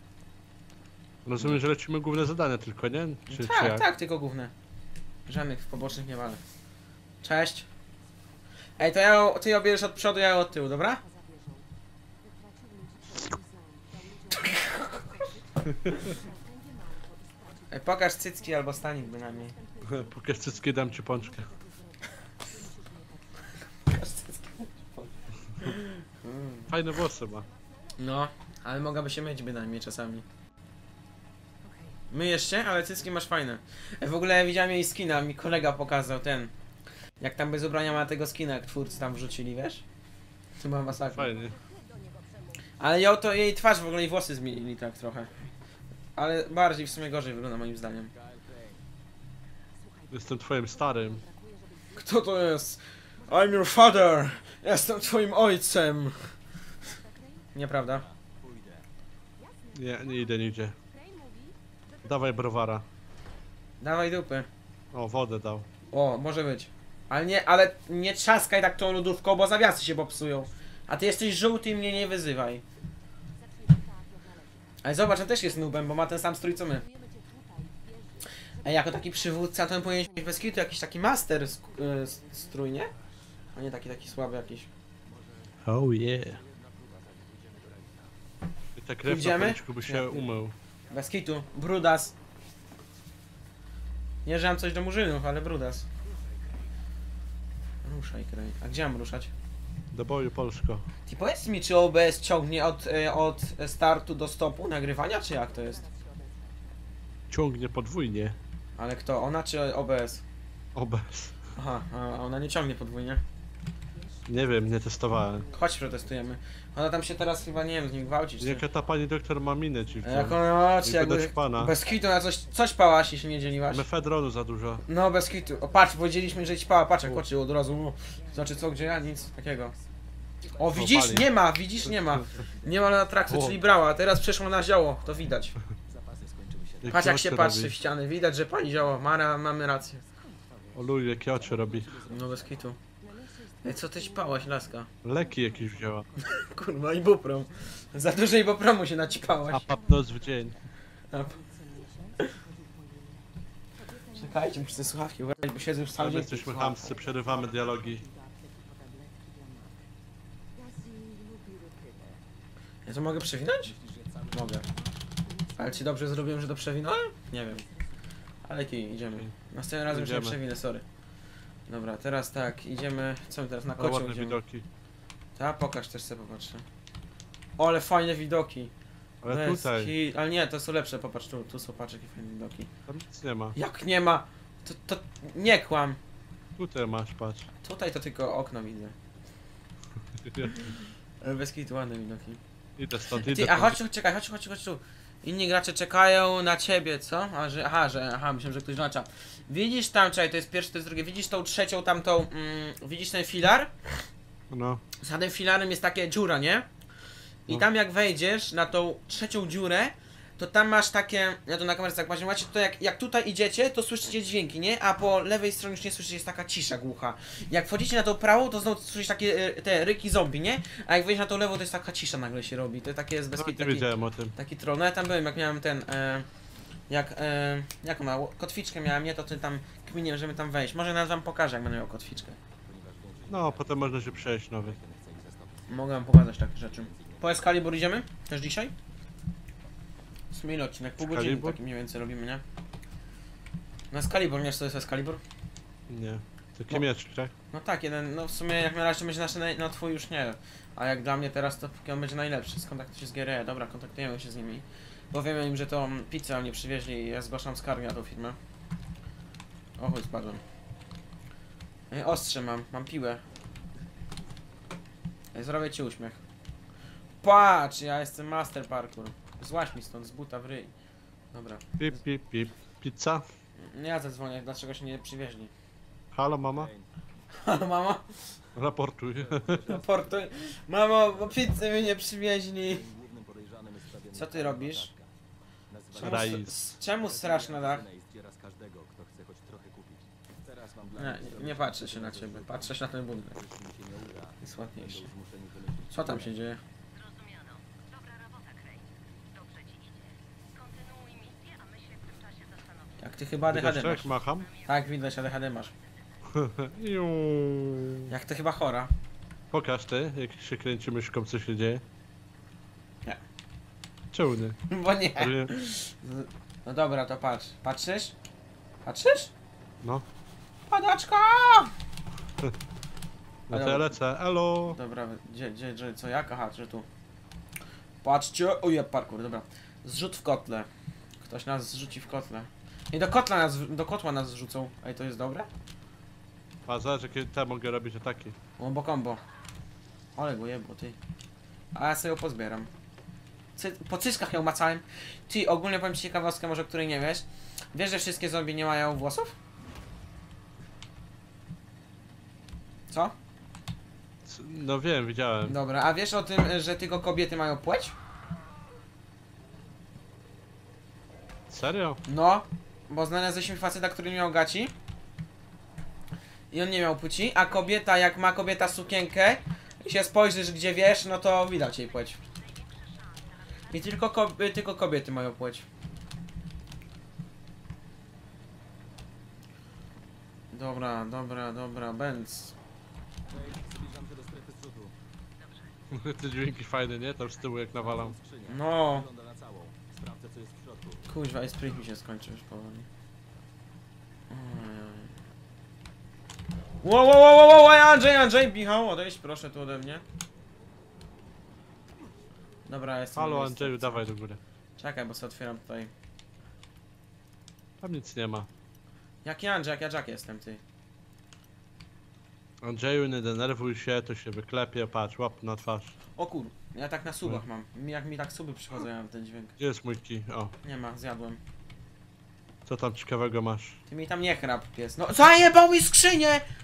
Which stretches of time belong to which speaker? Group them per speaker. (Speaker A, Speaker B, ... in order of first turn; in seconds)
Speaker A: 1.2-3.9, 15.7-16.1, 19.8-21.5, 26.7-27.5, 41.1-41.5, 50.1-51.2, 59.7-60.8, 62.0-62.9, 64.9-65.7, 85.6-86.4, 88.8-90.5, 99.9-100.8, 107.3-108.4, 110.7-111.3, 114.3-115.5, 118.4-121.7, 123.7-124.8, 130.7-131.3, 131.8-132.2, 133.3-133.6, 136.8-137.7, 140.7-142.0, 145.0-146.1, 149.5-150.5, 155.9-158.0, 169.0-169.3, 169.9-170.4, 173.8-174.7, 179.2-179.9, 182.9-183.6, 186.6-187.5, 190.1-190.7, 192.8-193.8, 204.5-204.8, 223.4-224.3, 233.3-234.8, 241.0-241.6, 245.9-247.3, 271.8-273.2, 276.1-276.7, 278.6-279.7, 286.0-286.5, 303.5-304.5, 306.3-308.1, 309.5-311.8, 314.1-314.6, 315.2-315.5, 323.5-324.8, 336.6-338.4, 354.2-355.6, 361.5-362.0, 385.9-388.1, 403.1-404.4, 407.8-408.5, 412.6-416.0, 419.6-420.5, 422.6-423.8
Speaker B: 3.3-4.5, 5.3-6.4, 7.2-7.7, 8.8-11.0, 14.3-15.3, 15.9-16.2, 17.7-19.6, 23.9-26.7, 28.0-30.2, 32.1-36.5, 37.2-39.8, 40.6-41.3, 42.8-45.3, 46.1-48.1, 51.9-56.3, 57.5-58.0, 63.8-64.5, 65.9-72.6, 74.8-76.8, 78.6-82.9, 83.5-84.7, 89.0-90.2, 90.9-92.1, 94.2-95.9, 97.8-99.3, 101.1-105.8, 108.8-110.2, 111.5-113.2, 115.5-118.6, 120.0-123.8, 124.8-129.7, 130.6-135.6, 136.9-140.0, 142.1-142.8, 143.6-144.9, 146.2-149.7, 151.1-151.4, 154.1-156.9, 162.8-163.7, 164.3-164.6, 165.5-167.6, 168.4-170.8, 171.7-174.4, 175.4-176.6, 177.6-178.7, 179.2-182.7, 183.5-186.0, 187.6-188.9, 190.4-192.4, 193.1-203.7, 205.0-206.7, 207.4-226.3, 226.9-232.4, 235.7-238.7, 240.3-242.4, 243.9-245.2, 247.5-258.4, 259.8-260.4, 261.9-263.2, 265.3-266.2, 267.2-270.7, 271.3-272.0, 273.6-275.5, 277.4-278.1, 279.6-282.8, 284.1-284.9, 285.9-287.8, 290.9-293.4, 294.4-295.1, 295.9-296.6, 303.0-304.1, 304.6-305.7, 308.1-308.9, 314.7-318.1, 318.8-319.3, 320.7-321.7, 323.5-323.9, 324.7-326.9, 328.0-330.7, 331.2-335.5, 338.6-339.2, 340.1-341.0, 341.7-342.7, 343.6-349.3, 355.4-357.9, 362.1-364.7, 366.5-372.2, 373.7-375.6, 380.5-382.6, 388.4-389.1, 391.1-392.9, 394.3-395.1, 396.8-400.0, 402.6-404.0, 404.8-405.9, 409.2-410.6, 416.1-419.6, 420.6-421.4, 423.9-426.4
Speaker C: 9.8-10.3, 10.9-24.9, 27.1-28.1, 31.6-32.0, 41.1-42.8, 49.7-52.3, 53.2-53.7, 56.8-57.5, 59.4-62.7, 73.3-82.8, 105.0-106.8, 113.9-116.3, 117.0-118.8, 119.6-120.3, 121.6-122.0, 122.9-124.1, 124.8-126.8, 128.0-129.9, 139.9-140.4, 143.0-159.9, 160.5-162.2, 164.6-166.4, 167.5-167.9, 296.9-306.3, 372.3-374.0, 385.4-386.5
Speaker D: 48.1-48.8, 57.8-58.9, 85.0-88.2, 96.0-96.7, 132.1-133.0, 135.8-137.1, 140.4-142.7, 163.6-164.9, 232.6-237.5, 276.6-276.9, 279.1-280.3, 281.1-282.0, 282.6-285.1, 285.7-292.8, 293.3-296.3, 383.3-384.9, 387.8-391.1